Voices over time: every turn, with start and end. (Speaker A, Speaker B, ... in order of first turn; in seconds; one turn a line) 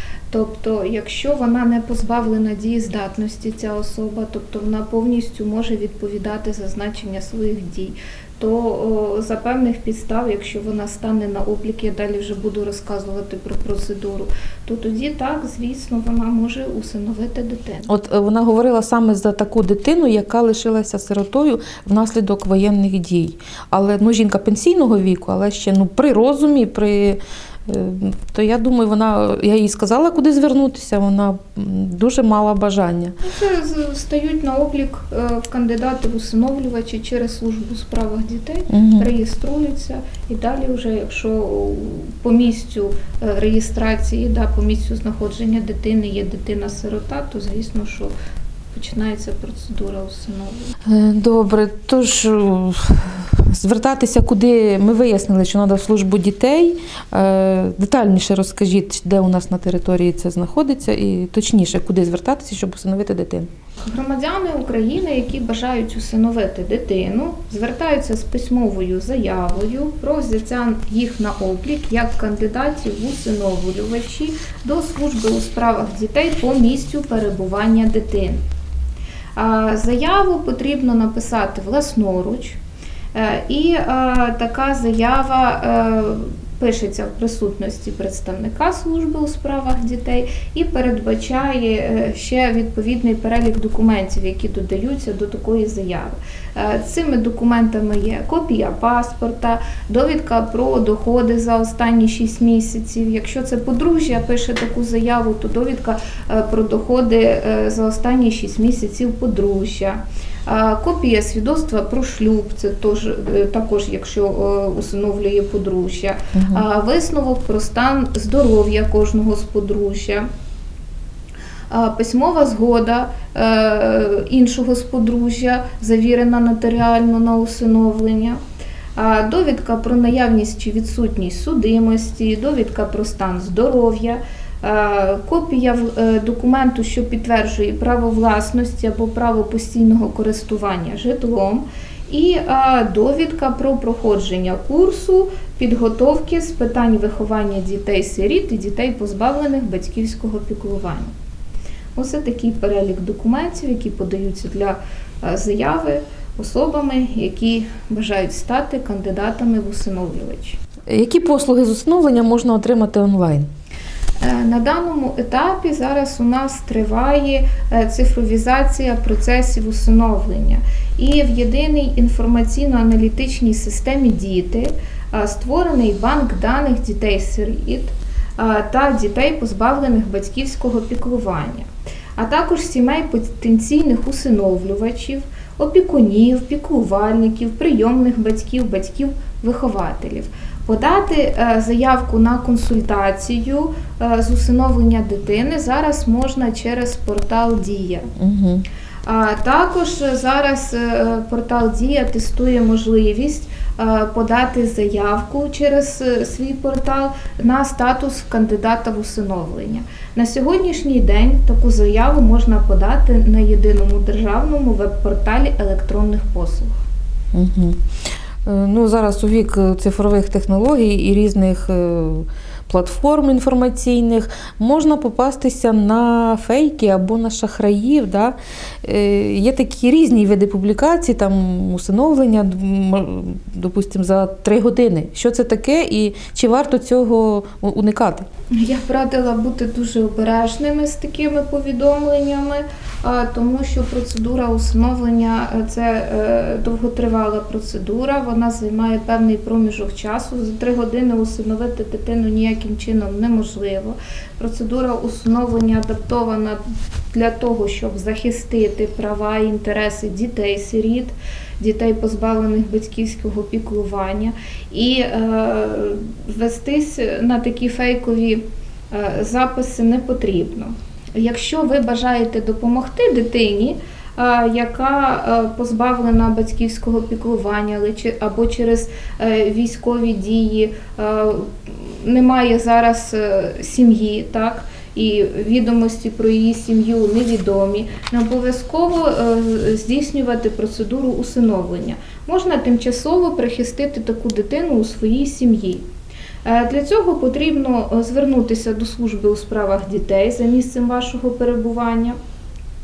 Speaker A: 0.3-17.9
Speaker B: 17.9-33.2
Speaker A: 33.2-48.1
Speaker B: 38.7-39.0
Speaker A: 48.7-50.6
Speaker B: 50.9-63.5
Speaker A: 63.8-78.4
Speaker A: 79.4-82.6
Speaker A: 83.1-120.3
Speaker B: 116.3-116.7
Speaker A: 121.7-128.4
Speaker A: 129.0-151.1
Speaker A: 152.0-160.6
Speaker B: 160.9-163.5
Speaker A: 164.2-198.1
Speaker B: 198.2-198.7
Speaker A: 199.1-216.8
Speaker B: 217.3-217.8
Speaker B: 218.5-238.3
Speaker A: 238.6-256.6
Speaker A: 257.1-295.9
Speaker A: 296.4-302.2